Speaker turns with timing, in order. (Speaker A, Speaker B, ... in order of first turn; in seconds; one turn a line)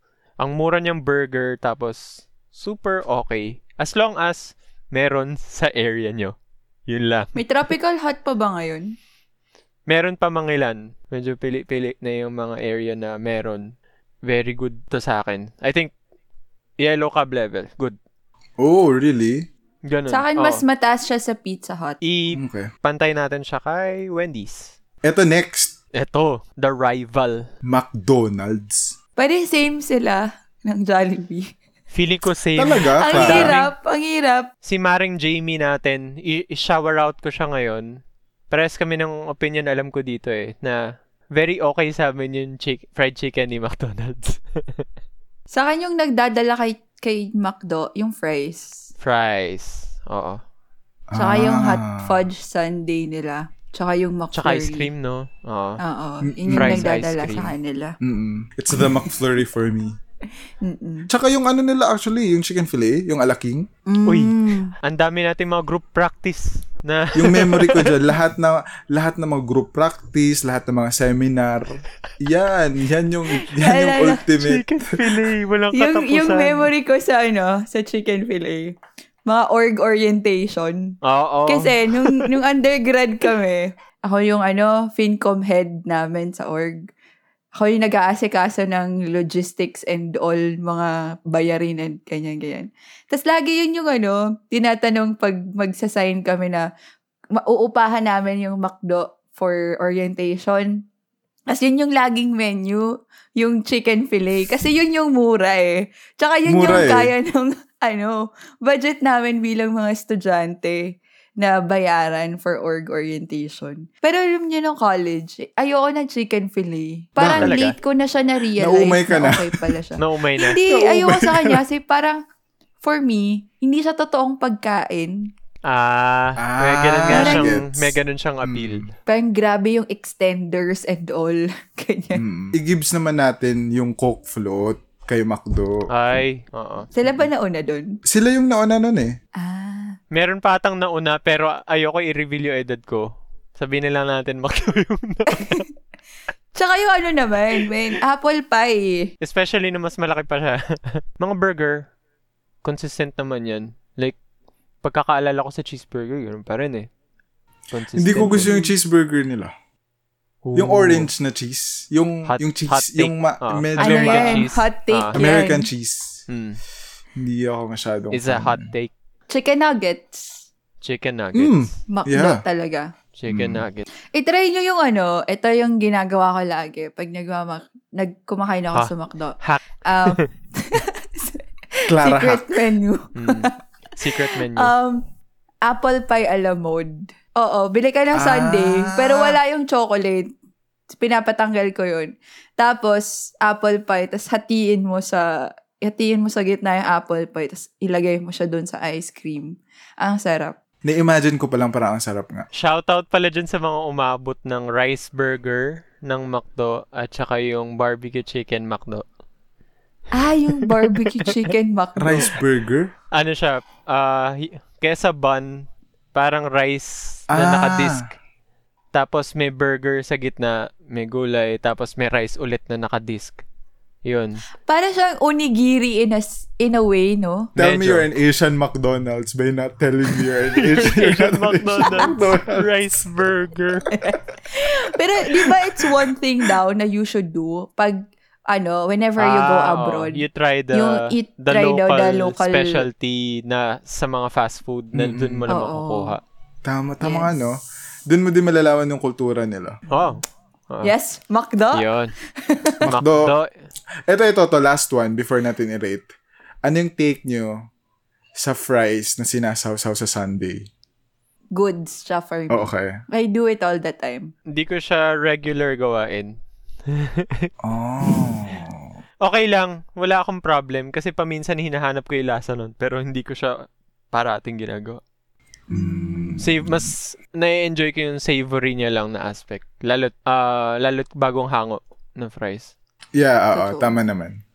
Speaker A: 0.4-6.3
Speaker A: 6.9-7.4
Speaker B: 7.3-8.9
Speaker A: 9.9-13.7
Speaker A: 14.3-15.9
Speaker A: 16.8-18.0
Speaker C: 18.6-19.5
Speaker A: 19.9-20.6
Speaker B: 20.1-22.0
Speaker A: 22.0-24.7
Speaker C: 22.3-22.7
Speaker C: 25.0-25.7
Speaker A: 25.9-27.5
Speaker C: 27.6-28.9
Speaker B: 29.2-31.5
Speaker A: 31.9-33.7
Speaker C: 32.6-33.5
Speaker B: 33.0-34.5
Speaker A: 34.6-38.0
Speaker A: 38.5-40.8
Speaker A: 41.3-44.8
Speaker B: 45.5-48.9
Speaker A: 49.0-50.4
Speaker C: 51.1-52.2
Speaker B: 51.1-54.9
Speaker A: 54.3-55.8
Speaker B: 55.8-58.0
Speaker C: 56.2-56.9
Speaker A: 56.5-57.5
Speaker C: 58.0-59.9
Speaker B: 60.6-61.1
Speaker C: 61.1-63.7
Speaker B: 63.9-64.7
Speaker A: 64.0-68.1
Speaker C: 67.1-75.1
Speaker B: 73.3-74.2
Speaker A: 74.4-76.7
Speaker B: 75.7-81.0
Speaker A: 81.0-82.2
Speaker B: 81.5-86.8
Speaker B: 87.5-96.6
Speaker B: 97.3-100.8
Speaker B: 101.5-122.2
Speaker C: 106.5-107.1
Speaker C: 117.2-117.7
Speaker A: 117.3-117.7
Speaker C: 118.5-119.8
Speaker A: 120.0-120.6
Speaker C: 120.6-121.6
Speaker B: 122.8-125.3
Speaker A: 125.7-128.9
Speaker C: 126.4-128.9
Speaker B: 127.1-127.5
Speaker B: 129.1-132.2
Speaker C: 132.1-135.9
Speaker A: 135.9-136.9
Speaker B: 136.9-137.9
Speaker C: 138.0-139.1
Speaker B: 139.4-140.0
Speaker A: 140.1-145.6
Speaker B: 145.3-145.7
Speaker B: 146.5-149.1
Speaker A: 149.2-151.9
Speaker A: 152.6-154.2
Speaker A: 154.8-156.9
Speaker A: 157.7-158.5
Speaker C: 158.0-159.5
Speaker B: 158.4-158.7
Speaker A: 160.4-161.1
Speaker C: 160.5-164.5
Speaker A: 162.3-165.2
Speaker B: 163.8-165.7
Speaker C: 165.1-166.2
Speaker A: 166.3-166.6
Speaker C: 167.2-168.7
Speaker A: 168.1-168.9
Speaker B: 169.3-170.4
Speaker A: 170.8-171.7
Speaker C: 171.3-172.4
Speaker B: 171.9-172.9
Speaker A: 173.2-173.8
Speaker C: 173.3-173.6
Speaker B: 174.1-185.1
Speaker A: 178.7-180.2
Speaker C: 181.9-182.6
Speaker A: 183.1-184.7
Speaker B: 185.6-190.3
Speaker C: 188.1-189.4
Speaker B: 190.9-200.6
Speaker C: 200.8-202.5
Speaker A: 202.5-209.0
Speaker B: 210.1-212.4
Speaker A: 210.6-211.3
Speaker C: 212.0-212.9
Speaker A: 213.1-218.1
Speaker C: 217.3-218.1
Speaker A: 218.9-223.4
Speaker A: 224.0-224.4
Speaker B: 224.7-227.5
Speaker A: 227.6-228.1
Speaker C: 227.6-232.7
Speaker A: 230.6-233.9
Speaker B: 233.9-242.9
Speaker C: 235.4-236.1
Speaker A: 239.2-246.2
Speaker C: 244.9-245.5
Speaker B: 245.5-246.2
Speaker C: 246.6-249.8
Speaker B: 247.0-247.3
Speaker A: 249.9-250.9
Speaker B: 250.8-252.8
Speaker A: 251.7-252.1
Speaker C: 252.8-253.3
Speaker A: 252.8-253.5
Speaker C: 254.1-256.1
Speaker C: 256.6-257.6
Speaker C: 258.4-260.7
Speaker B: 261.5-264.3
Speaker C: 262.5-263.0
Speaker A: 264.5-266.4
Speaker A: 266.9-267.5
Speaker C: 267.6-269.0
Speaker A: 269.2-275.0
Speaker C: 275.7-276.9
Speaker B: 275.7-276.4
Speaker A: 276.4-282.7
Speaker C: 283.1-284.4
Speaker B: 283.5-284.0